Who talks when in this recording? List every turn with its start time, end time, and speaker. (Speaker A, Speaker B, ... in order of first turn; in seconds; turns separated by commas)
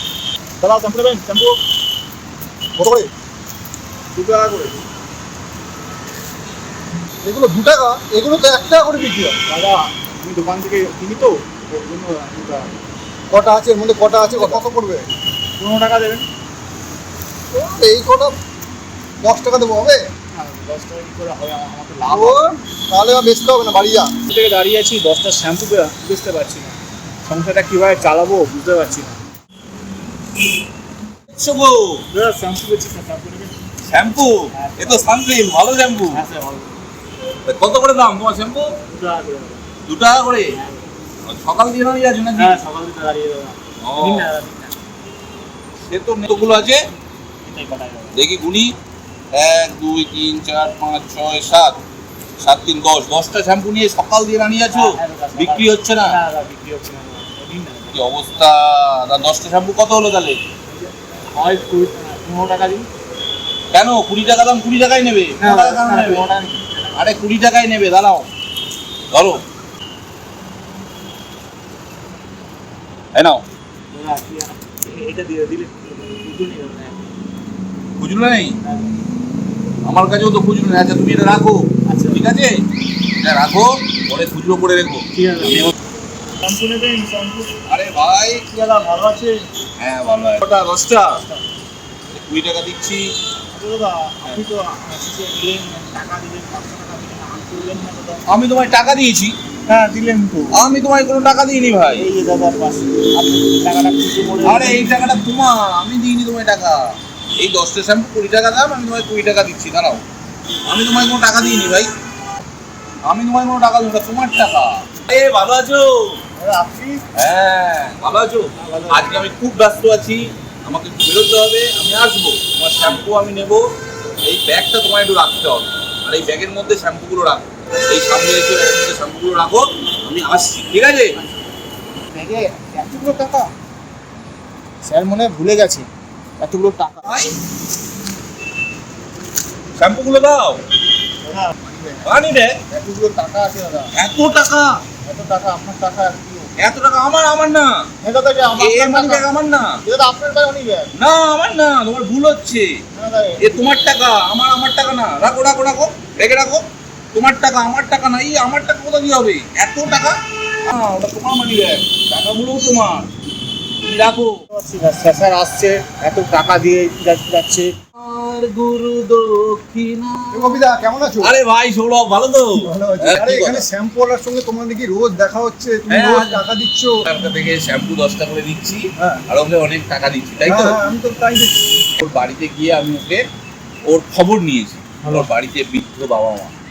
Speaker A: 0.6-1.6, Speaker B: 2.8-3.1, Speaker A: 4.1-4.8, Speaker B: 7.2-9.4, Speaker A: 9.5-12.7, Speaker B: 13.3-15.1, Speaker A: 14.2-14.6, Speaker A: 15.6-16.2, Speaker B: 17.5-18.3, Speaker B: 19.2-20.0, Speaker A: 20.3-22.4, Speaker B: 22.1-24.1, Speaker A: 24.3-29.2, Speaker C: 31.3-32.0, Speaker A: 32.1-33.5, Speaker C: 33.9-36.2, Speaker A: 34.5-35.1, Speaker A: 36.1-36.7, Speaker C: 37.5-38.7, Speaker A: 38.9-39.6, Speaker C: 39.9-40.5, Speaker A: 40.5-40.9, Speaker C: 41.2-42.6, Speaker A: 42.3-44.7, Speaker C: 43.8-44.3, Speaker C: 45.9-46.9, Speaker A: 47.4-48.2, Speaker C: 48.1-48.7, Speaker C: 49.3-51.8, Speaker C: 52.4-56.1, Speaker A: 54.7-58.0, Speaker C: 57.9-60.4, Speaker A: 60.7-62.9, Speaker C: 63.7-66.2, Speaker A: 65.4-66.8, Speaker C: 66.9-68.3, Speaker C: 69.1-69.4, Speaker C: 73.1-73.4, Speaker A: 73.9-77.0, Speaker C: 78.0-78.5, Speaker A: 78.6-78.9, Speaker C: 79.8-82.6, Speaker A: 81.8-82.2, Speaker C: 83.2-85.7, Speaker A: 85.1-85.7, Speaker A: 86.4-87.5, Speaker C: 87.7-88.4, Speaker A: 88.5-89.5, Speaker C: 89.8-91.2, Speaker C: 92.1-93.1, Speaker A: 93.5-98.2, Speaker C: 98.3-99.4, Speaker A: 99.7-100.5, Speaker C: 100.5-102.0, Speaker A: 101.9-104.8, Speaker C: 104.4-110.0, Speaker C: 110.7-111.9, Speaker C: 113.0-116.2, Speaker A: 116.4-117.0, Speaker C: 117.1-123.7, Speaker A: 118.5-119.2, Speaker C: 124.2-131.1, Speaker A: 132.1-133.5, Speaker A: 134.8-135.9, Speaker A: 136.4-137.2, Speaker C: 137.1-137.3, Speaker C: 139.8-140.6, Speaker A: 141.2-142.1, Speaker C: 142.0-142.6, Speaker A: 142.7-143.9, Speaker C: 143.9-144.8, Speaker A: 145.0-146.5, Speaker C: 146.6-147.8, Speaker A: 148.0-149.2, Speaker C: 148.6-149.8, Speaker A: 149.8-150.9, Speaker C: 150.9-152.8, Speaker A: 152.9-153.8, Speaker C: 153.4-163.1, Speaker C: 163.8-164.4, Speaker A: 164.5-167.7, Speaker C: 168.0-170.6, Speaker B: 170.3-171.3, Speaker C: 171.2-173.7, Speaker B: 172.6-177.0, Speaker C: 175.9-176.4, Speaker C: 177.0-180.8, Speaker B: 179.0-179.2, Speaker B: 180.4-181.5, Speaker C: 182.0-183.2, Speaker C: 183.8-186.5